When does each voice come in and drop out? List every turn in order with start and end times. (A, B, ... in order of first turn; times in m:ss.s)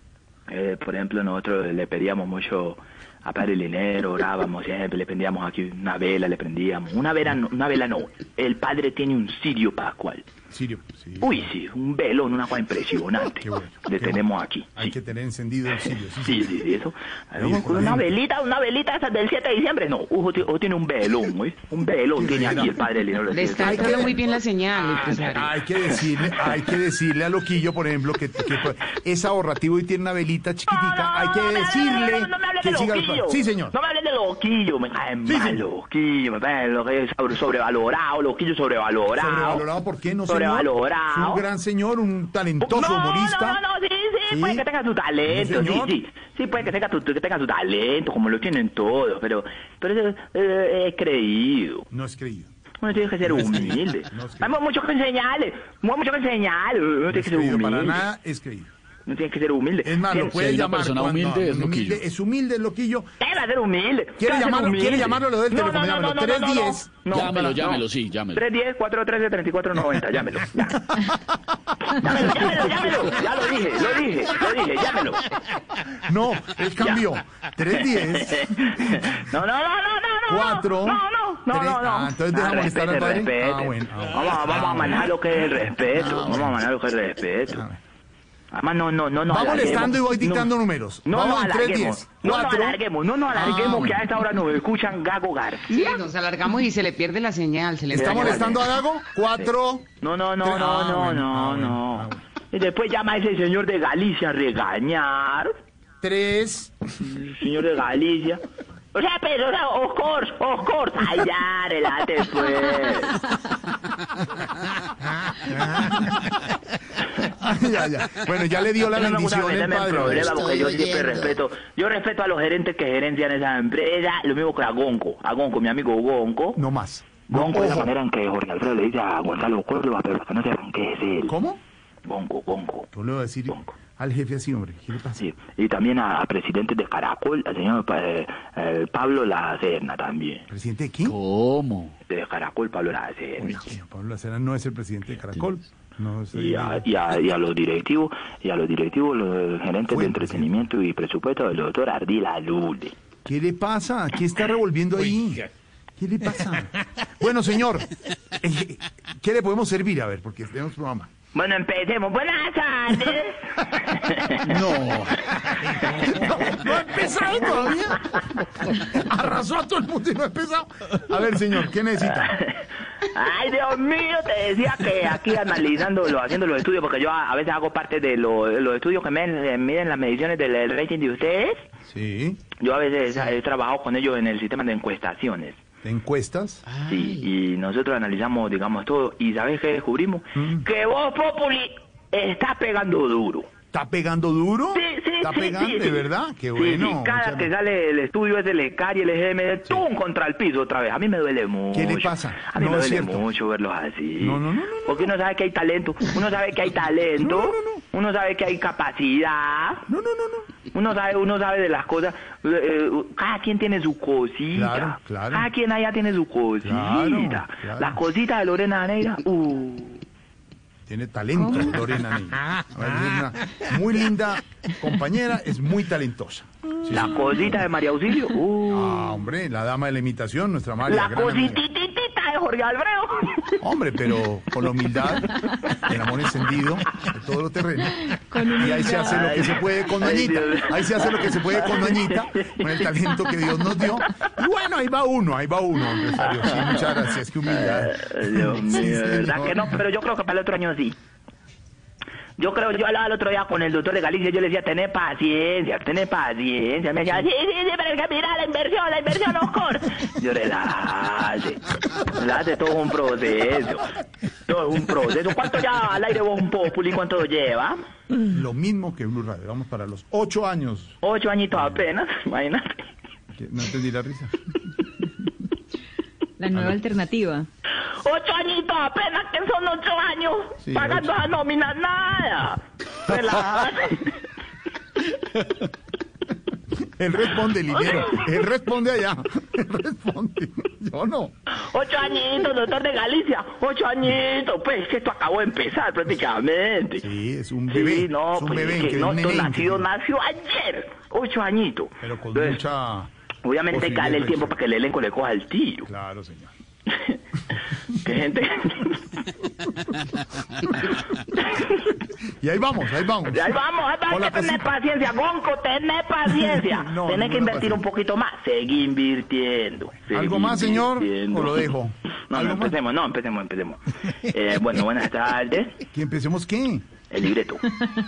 0:00.5-0:10.2 A
0:10.5-0:11.4 B
0:11.2-0:14.9 A
0:13.4-0:14.2 B
0:14.7-0:16.6 B
0:16.2-0:24.1 A
0:17.4-0:18.2 B
0:22.1-0:22.7 B
0:23.2-0:25.5 C
0:23.6-0:24.2 B
0:25.0-0:33.7 B
0:30.7-0:39.6 A
0:35.3-0:35.6 B
0:39.1-0:43.6 B
0:40.3-0:41.4 A
0:42.6-0:51.8 A
0:44.3-0:44.6 B
0:45.2-0:46.0 B
0:51.9-0:52.5 B
0:52.8-0:58.0 A
0:53.2-0:54.6 B
0:57.1-0:58.7 B
0:59.0-1:00.4 A
0:59.8-1:03.1 B
1:00.3-1:02.0 D
1:03.2-1:10.9 A
1:04.2-1:07.6 B
1:07.1-1:08.4 D
1:12.0-1:15.3 A
1:16.0-1:18.8 B
1:18.0-1:27.6 A
1:20.3-1:25.0 B
1:25.9-1:26.6 B
1:27.5-1:27.8 B
1:28.5-1:30.5 A
1:29.3-1:32.8 B
1:31.0-1:36.0 A
1:33.3-1:34.0 B
1:35.7-1:38.5 C
1:37.9-1:39.9 B
1:37.9-1:38.8 A
1:40.0-1:45.5 A
1:40.4-1:42.2 B
1:46.0-1:46.8 B
1:47.0-1:48.4 A
1:48.9-1:53.1 A
1:55.7-1:56.3 B
1:57.3-2:01.1 B
1:58.9-2:06.6 A
2:06.6-2:07.9 B
2:07.2-2:11.3 A
2:11.3-2:11.6 B
2:12.0-2:12.9 A
2:12.9-2:15.2 B
2:13.5-2:13.8 A
2:15.2-2:20.4 A
2:20.5-2:21.2 B
2:21.0-2:21.9 D
2:22.1-2:23.6 A
2:23.4-2:26.8 B
2:26.3-2:32.9 A
2:29.9-2:30.6 B
2:33.2-2:35.4 B
2:36.0-2:41.1 B
2:41.3-2:44.5 A
2:44.4-2:52.4 B
2:52.2-3:01.6 A
3:01.9-3:02.4 B
3:02.6-3:05.6 A
3:05.8-3:06.6 B
3:06.7-3:07.3 C
3:06.9-3:13.5 A
3:10.3-3:10.6 B
3:13.7-3:17.5 B
3:14.7-3:29.8 A
3:21.7-3:23.3 B
3:24.2-3:25.1 B
3:27.2-3:27.8 B
3:29.9-3:30.5 B
3:30.7-3:40.0 A
3:34.5-3:35.5 B
3:36.6-3:38.0 B
3:40.9-3:47.3 B
3:46.9-3:49.1 A
3:48.7-3:51.6 B
3:50.9-3:53.6 A
3:53.6-4:09.7 B
3:58.3-3:59.3 E
3:59.1-4:02.8 A
4:06.2-4:11.0 A
4:12.4-4:23.8 A
4:24.4-4:27.8 A
4:28.2-4:31.0 B
4:31.0-4:32.7 A
4:31.5-4:31.8 B
4:33.4-4:34.3 B
4:36.4-4:37.5 E
4:36.5-4:36.8 B
4:37.9-4:44.2 A
4:40.6-4:41.1 B
4:46.8-4:51.3 B
4:47.8-4:48.2 A
4:51.6-4:57.0 A
4:57.0-4:59.9 B
4:57.7-5:02.6 A
5:02.0-5:03.1 B
5:03.4-5:05.9 A
5:03.7-5:04.6 B
5:05.8-5:06.5 B
5:06.9-5:07.2 A
5:08.0-5:09.0 A
5:09.6-5:10.0 B
5:10.6-5:11.0 B
5:11.4-5:11.8 A
5:12.2-5:14.7 B
5:13.3-5:21.7 A
5:16.5-5:17.8 B
5:20.1-5:22.8 B
5:22.3-5:25.8 A
5:25.9-5:26.9 B
5:27.1-5:27.8 A